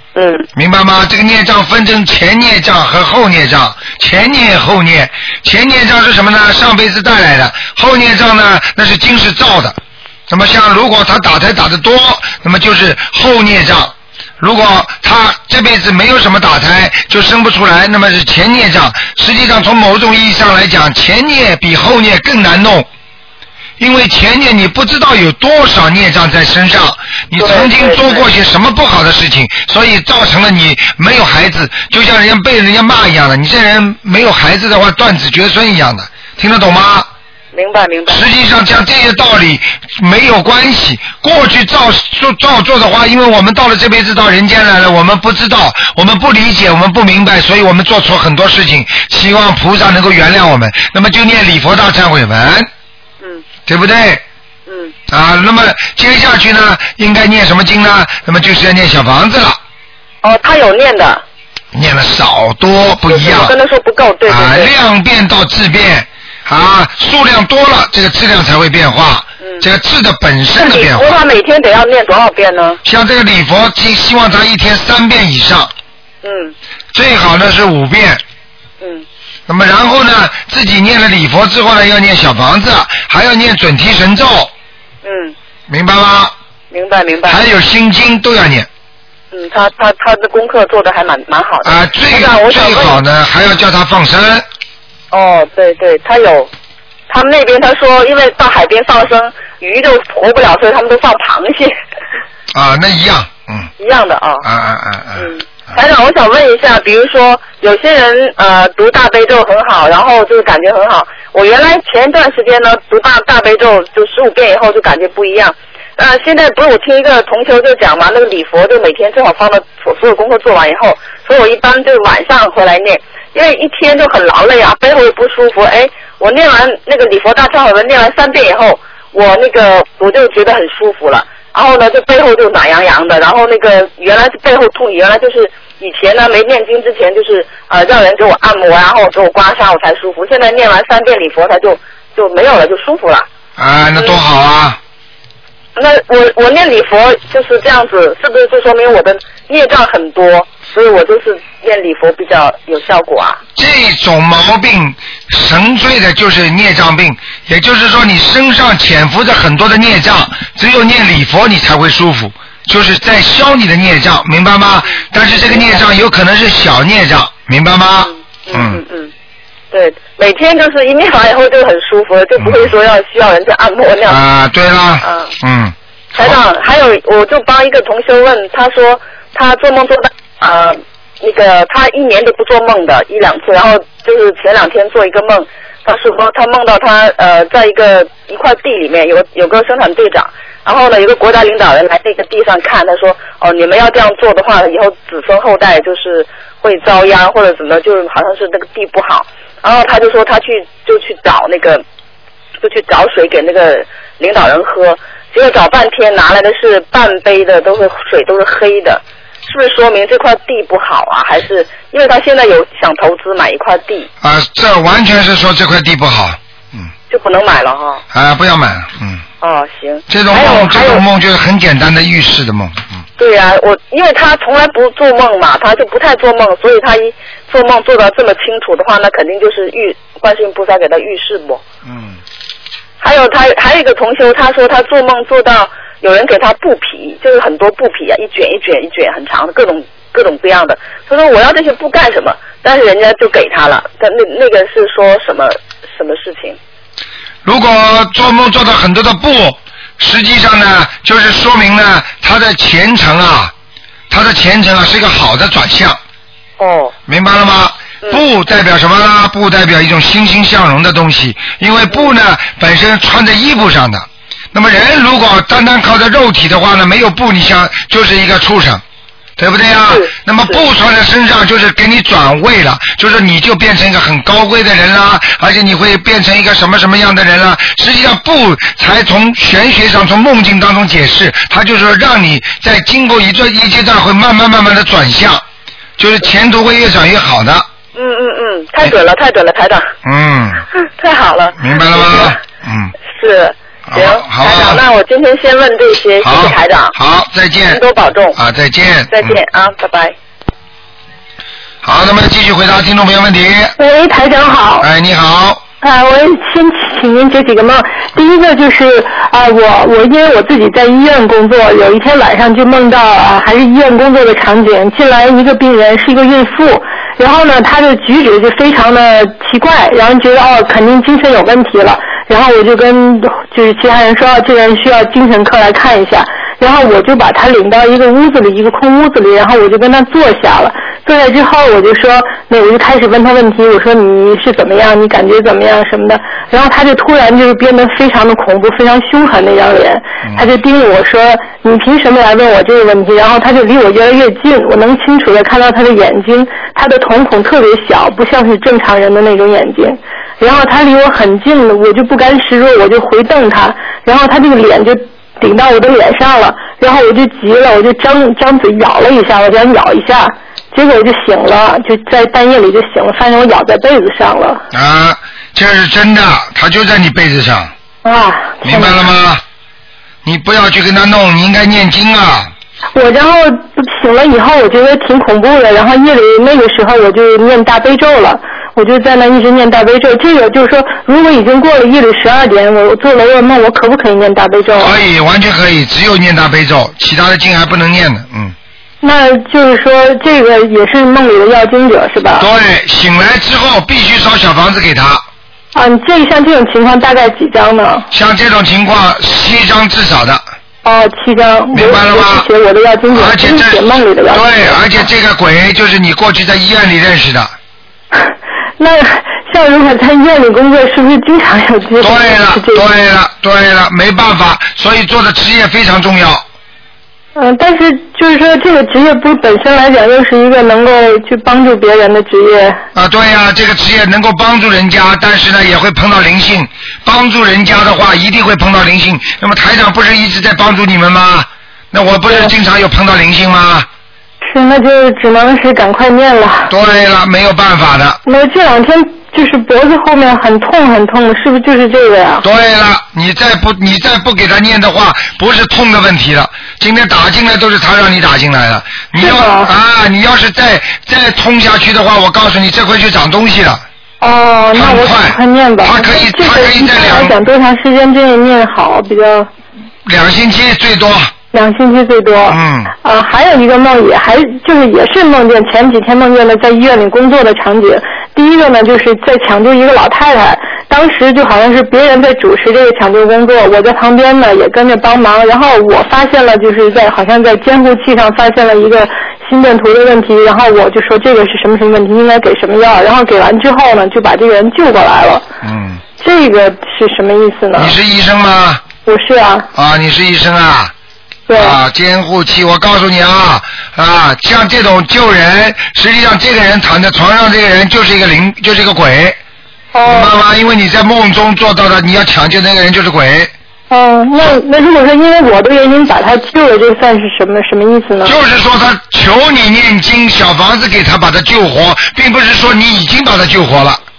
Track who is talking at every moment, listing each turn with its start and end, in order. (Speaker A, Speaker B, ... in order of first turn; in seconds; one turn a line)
Speaker A: 0.1-0.5
Speaker B: 0.6-9.8
Speaker B: 10.3-22.9
Speaker B: 23.8-37.1
Speaker A: 27.4-28.3
Speaker A: 37.5-38.3
Speaker B: 38.1-52.7
Speaker B: 53.7-54.2
Speaker A: 54.7-54.9
Speaker B: 55.1-59.6
Speaker A: 60.2-61.2
Speaker B: 61.7-63.5
Speaker A: 63.1-64.7
Speaker B: 64.3-71.2
Speaker A: 70.6-72.8
Speaker B: 72.8-75.7
Speaker A: 76.2-76.5
Speaker B: 76.9-78.2
Speaker A: 78.8-79.1
Speaker B: 79.5-84.5
Speaker A: 85.0-85.3
Speaker B: 85.7-86.3
Speaker A: 86.7-87.4
Speaker B: 87.3-88.7
Speaker A: 89.3-93.0
Speaker B: 91.6-94.5
Speaker A: 95.1-96.5
Speaker A: 97.1-101.7
Speaker B: 102.5-103.7
Speaker A: 103.8-104.5
Speaker B: 104.4-105.3
Speaker A: 105.2-143.3
Speaker B: 143.6-144.8
Speaker A: 145.8-153.4
Speaker B: 153.6-168.8
Speaker A: 164.9-165.8
Speaker A: 168.0-169.1
Speaker A: 169.7-174.2
Speaker B: 172.4-172.7
Speaker B: 174.1-176.4
Speaker A: 175.0-175.3
Speaker A: 176.2-201.8
Speaker A: 202.6-214.1
Speaker B: 214.2-216.9
Speaker A: 217.1-218.0
Speaker B: 218.1-219.2
Speaker A: 219.4-221.0
Speaker B: 220.1-223.0
Speaker A: 223.2-231.6
Speaker B: 231.9-232.2
Speaker A: 233.0-246.6
Speaker B: 247.4-253.5
Speaker B: 254.1-256.0
Speaker A: 256.6-256.9
Speaker B: 257.1-268.8
Speaker B: 269.4-285.4
Speaker A: 269.9-270.6
Speaker B: 286.0-287.7
Speaker A: 287.9-289.9
Speaker B: 290.0-290.6
Speaker A: 291.0-292.4
Speaker B: 291.6-292.9
Speaker A: 293.1-296.9
Speaker B: 293.9-294.8
Speaker B: 296.2-297.8
Speaker A: 297.7-298.4
Speaker B: 298.3-299.4
Speaker A: 299.1-300.2
Speaker B: 301.8-303.8
Speaker C: 303.8-304.9
Speaker B: 304.8-305.6
Speaker C: 305.8-364.6
Speaker B: 364.7-367.7
Speaker C: 368.0-369.0
Speaker B: 368.6-369.4
Speaker B: 370.2-372.5
Speaker C: 372.9-385.0
Speaker B: 384.8-388.6
Speaker C: 389.0-392.5
Speaker B: 392.4-395.2
Speaker C: 395.7-398.1
Speaker B: 398.1-400.4
Speaker C: 400.8-405.0
Speaker B: 401.7-402.5
Speaker B: 403.1-407.5
Speaker C: 408.1-412.8
Speaker B: 412.0-416.4
Speaker C: 417.4-422.8
Speaker B: 422.9-433.9
Speaker C: 434.4-436.7
Speaker B: 436.7-438.2
Speaker C: 438.3-442.4
Speaker B: 442.4-453.8
Speaker C: 449.1-449.7
Speaker C: 454.2-459.5
Speaker B: 454.7-457.4
Speaker B: 460.1-461.3
Speaker C: 461.5-485.5
Speaker B: 462.5-462.9
Speaker B: 485.6-486.0
Speaker C: 486.2-487.9
Speaker B: 487.8-488.8
Speaker C: 489.1-489.7
Speaker B: 489.8-490.9
Speaker C: 491.5-491.8
Speaker B: 491.6-499.4
Speaker C: 499.9-500.4
Speaker B: 500.1-503.5
Speaker C: 503.9-508.4
Speaker B: 508.2-514.0